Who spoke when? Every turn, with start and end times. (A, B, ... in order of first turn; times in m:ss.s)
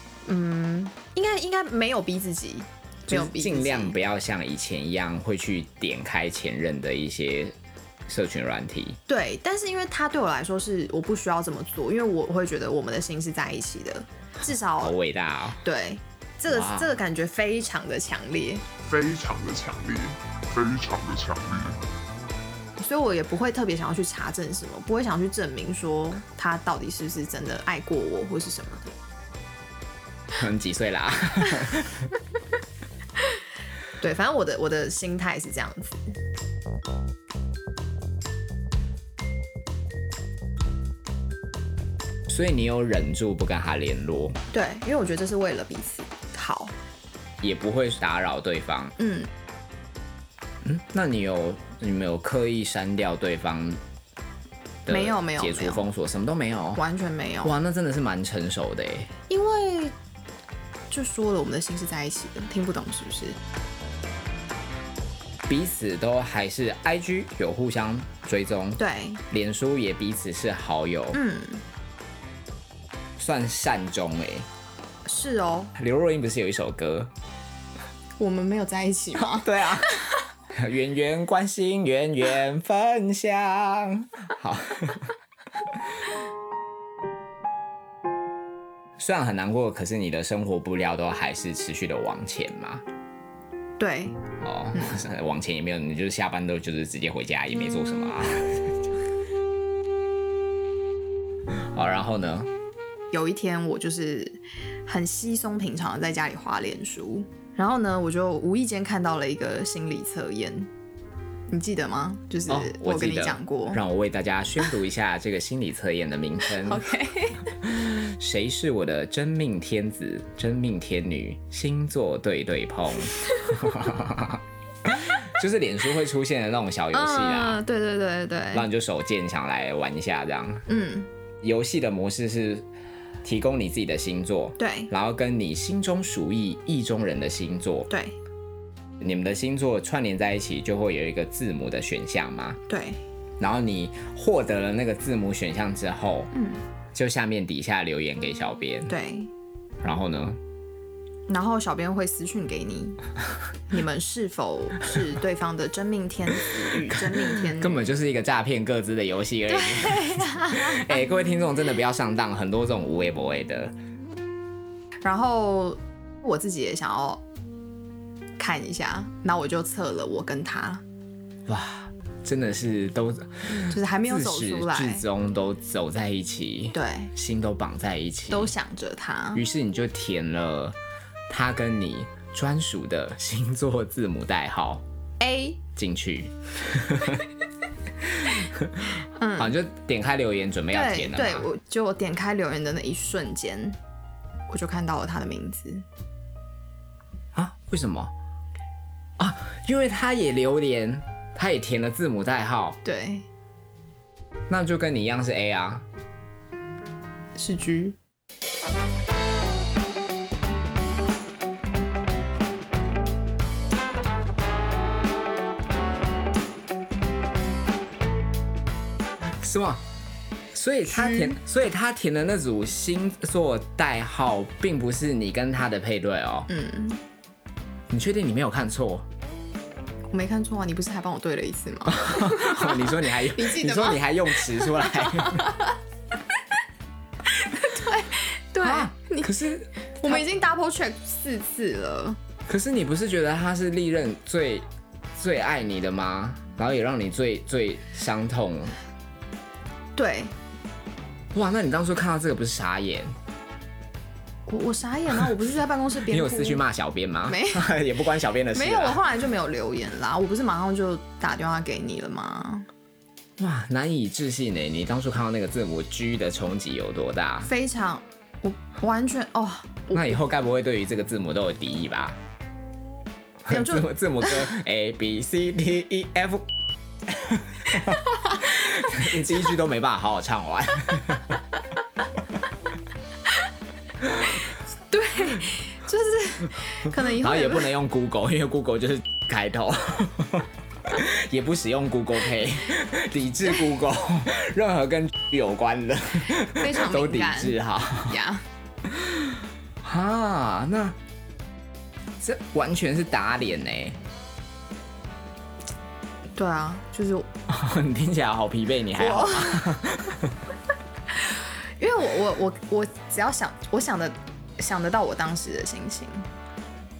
0:00.2-0:04.0 A
0:03.1-0:07.6 B
0:08.1-0:09.0 B
0:09.1-0:14.9 A
0:14.7-0:15.6 B
0:15.6-0:18.6 A
0:16.5-0:16.9 B
0:18.8-0:21.8 C
0:22.8-0:28.9 A
0:30.3-0:32.1 B
0:34.0-0:36.1 A
0:42.3-0:44.4 B
0:44.5-0:46.7 A
0:47.4-0:49.0 B
0:49.0-0:49.3 A
0:50.6-0:53.8 B
0:54.8-0:56.8 B
0:54.9-0:55.8 A
0:56.8-0:57.5 A
0:57.4-0:59.1 B
0:59.3-0:59.9 A
1:00.9-1:03.4 A
1:05.5-1:11.2 B
1:08.8-1:09.2 A
1:11.1-1:11.6 A
1:13.2-1:14.5 B
1:15.0-1:15.7 A
1:15.8-1:17.1 B
1:18.2-1:20.0 A
1:19.1-1:20.0 B
1:20.5-1:25.1 B
1:29.0-1:32.8 B
1:33.8-1:34.2 A
1:34.4-1:38.8 B
1:34.7-1:35.0 A
1:41.7-1:42.5 B
1:43.1-1:50.7 A
1:51.5-1:53.8 A
1:52.5-1:56.8 B
1:56.5-1:57.5 A
1:57.6-2:07.6 B
2:06.9-2:08.6 A
2:08.5-2:10.6 B
2:10.7-2:11.1 A
2:11.4-2:12.7 B
2:13.2-2:17.9 B
2:14.6-2:14.9 A
2:17.9-2:18.2 A
2:19.0-2:22.6 B
2:22.7-2:23.0 A
2:23.4-2:26.3 B
2:26.3-2:26.6 A
2:26.9-2:28.9 B
2:28.9-2:29.3 A
2:29.8-2:30.4 B
2:31.3-2:33.0 A
2:33.7-2:37.8 A
2:36.9-2:43.7 B
2:39.5-2:41.1 A
2:45.0-2:47.2 A
2:48.4-2:50.8 A
2:51.4-2:58.5 B
2:53.5-2:55.0 A
2:56.7-2:57.1 A
2:58.3-2:59.4 A
2:59.3-3:00.8 B
3:01.3-3:04.8 B
3:05.2-3:05.6 A
3:05.8-3:07.2 B
3:08.2-3:11.5 B
3:09.2-3:09.5 A
3:10.7-3:13.8 A
3:14.5-3:15.8 A
3:17.3-3:18.1 B
3:19.2-3:22.8 B
3:22.8-3:23.2 A
3:24.5-3:25.9 B
3:27.3-3:28.0 A
3:39.4-3:39.8 B
3:40.5-3:46.5 B
3:41.0-3:41.4 A
3:46.5-3:47.0 A
3:47.9-3:49.1 B
3:50.1-3:55.7 A
3:51.9-3:55.5 B
3:57.3-3:59.3 A
3:58.6-4:00.2 B
4:00.0-4:02.2 A
4:02.5-4:08.8 B
4:10.0-4:10.3 A
4:11.3-4:13.2 B
4:14.5-4:16.6 A
4:16.1-4:19.0 B
4:17.2-4:17.7 A
4:18.5-4:22.7 A
4:23.4-4:27.5 B
4:27.4-4:30.2 A
4:29.9-4:32.2 B
4:33.4-4:36.5 B
4:33.5-4:34.4 A
4:37.1-4:41.4 B
4:44.9-4:47.7 A
4:47.0-4:58.2 B
4:56.5-4:58.4 A
4:58.9-5:01.0 B
5:02.2-5:04.0 B
5:06.4-5:07.3 A
5:07.5-5:10.4 B
5:09.0-5:09.8 A
5:11.2-5:16.3 A